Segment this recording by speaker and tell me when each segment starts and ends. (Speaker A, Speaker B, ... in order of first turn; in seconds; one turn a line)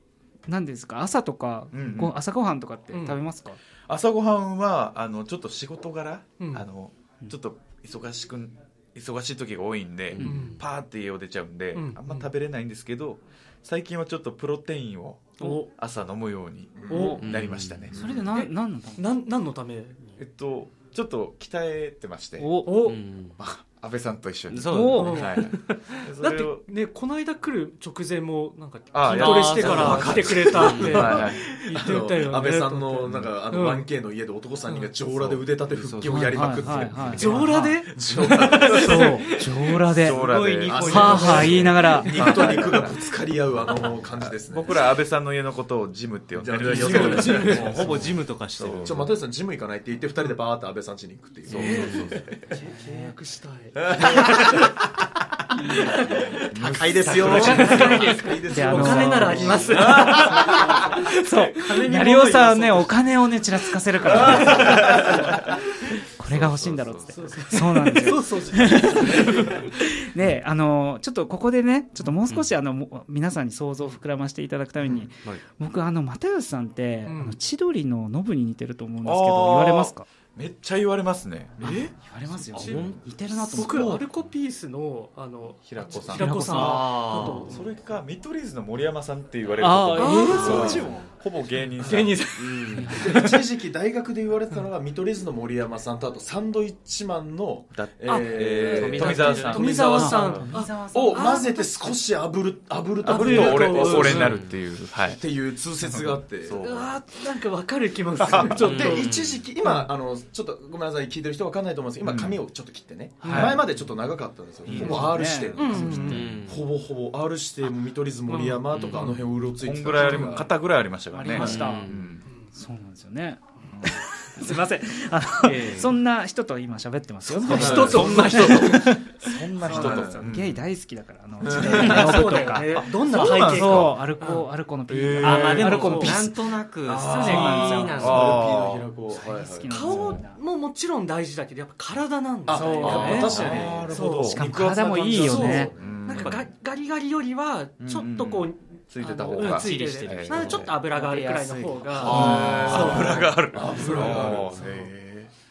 Speaker A: 0.5-3.6
Speaker B: 1.7-2.1
Speaker C: 2.9-3.2
Speaker B: 3.9-18.3
Speaker C: 6.4-6.7
Speaker D: 10.1-10.4
Speaker A: 10.2-10.5
Speaker C: 10.2-10.6
Speaker C: 11.7-12.3
Speaker C: 15.4-15.7
Speaker E: 16.8-17.2
Speaker A: 16.9-17.2
Speaker C: 16.9-17.2
Speaker D: 17.2-18.0
Speaker A: 17.9-19.1
Speaker C: 18.3-20.2
Speaker B: 20.2-22.6
Speaker A: 22.4-22.7
Speaker C: 22.6-23.0
Speaker D: 22.8-23.4
Speaker B: 23.4-26.6
Speaker D: 24.5-26.0
Speaker A: 24.7-25.2
Speaker C: 24.9-25.4
Speaker C: 26.2-33.9
Speaker B: 28.9-31.4
Speaker D: 29.1-31.2
Speaker E: 29.6-39.1
Speaker B: 33.1-33.4
Speaker D: 35.1-37.2
Speaker A: 36.0-37.8
Speaker B: 36.6-37.2
Speaker C: 37.2-37.9
Speaker D: 38.2-42.8
Speaker A: 38.6-40.3
Speaker C: 38.7-39.3
Speaker B: 39.9-43.0
Speaker E: 40.6-44.9
Speaker A: 40.8-42.1
Speaker C: 41.0-42.4
Speaker B: 43.6-49.1
Speaker D: 43.7-44.1
Speaker E: 46.3-48.1
Speaker D: 46.6-49.1
Speaker E: 48.8-52.5
Speaker D: 51.5-52.2
Speaker B: 51.5-52.1
Speaker C: 51.5-54.4
Speaker A: 52.7-53.1
Speaker E: 53.8-54.7
Speaker C: 55.7-56.4
Speaker B: 56.5-58.1
Speaker E: 56.6-60.9
Speaker C: 57.0-63.1
Speaker A: 58.5-65.2
Speaker B: 58.7-59.6
Speaker C: 64.2-65.5
Speaker B: 64.3-65.5
Speaker A: 66.2-80.1
Speaker B: 66.3-67.0
Speaker D: 66.4-67.1
Speaker C: 67.1-69.7
Speaker C: 77.0-77.4
Speaker B: 79.0-81.7
Speaker C: 81.6-81.9
Speaker A: 82.0-84.0
Speaker C: 82.5-87.8
Speaker D: 82.5-83.0
Speaker B: 85.6-92.2
Speaker A: 86.1-86.8
Speaker D: 86.4-87.5
Speaker A: 89.6-91.0
Speaker C: 89.9-91.1
Speaker D: 90.3-91.1
Speaker E: 90.4-90.7
Speaker C: 91.8-93.4
Speaker D: 92.4-93.1
Speaker A: 92.7-93.2
Speaker E: 93.0-106.6
Speaker B: 97.7-99.8
Speaker D: 98.1-99.9
Speaker C: 99.5-101.9
Speaker A: 99.5-101.9
Speaker B: 103.0-105.2
Speaker C: 103.1-104.3
Speaker D: 104.0-104.5
Speaker B: 105.8-107.0
Speaker C: 106.6-109.9
Speaker B: 108.2-108.9
Speaker E: 108.3-120.5
Speaker D: 108.5-109.5
Speaker B: 112.0-112.4
Speaker C: 113.2-113.6
Speaker B: 113.2-113.6
Speaker B: 114.7-115.1
Speaker A: 114.7-116.2
Speaker C: 114.8-116.2
Speaker B: 115.7-116.3
Speaker D: 116.1-116.7
Speaker C: 118.3-119.1
Speaker D: 118.7-119.2
Speaker B: 119.6-122.2
Speaker A: 120.0-120.4
Speaker A: 121.1-122.0
Speaker D: 121.3-122.1
Speaker C: 122.2-122.5
Speaker A: 122.5-136.5
Speaker D: 125.5-125.9
Speaker C: 127.4-128.9
Speaker E: 127.5-128.6
Speaker B: 127.5-130.6
Speaker E: 129.6-130.3
Speaker E: 131.4-133.5
Speaker C: 131.5-134.5
Speaker B: 131.9-132.2
Speaker B: 133.0-133.9
Speaker B: 134.9-135.8
Speaker D: 135.2-138.4
Speaker C: 135.6-136.2
Speaker E: 136.8-139.7
Speaker C: 137.1-137.9
Speaker A: 137.1-138.0
Speaker B: 137.9-138.9
Speaker A: 139.1-140.4
Speaker C: 139.7-144.4
Speaker B: 139.8-140.2
Speaker E: 142.5-146.3
Speaker A: 142.5-143.4
Speaker B: 142.8-146.4
Speaker A: 144.3-145.7
Speaker C: 145.2-154.9
Speaker B: 147.8-150.8
Speaker A: 149.2-153.2
Speaker D: 149.8-150.4
Speaker B: 152.0-155.3
Speaker E: 152.0-154.7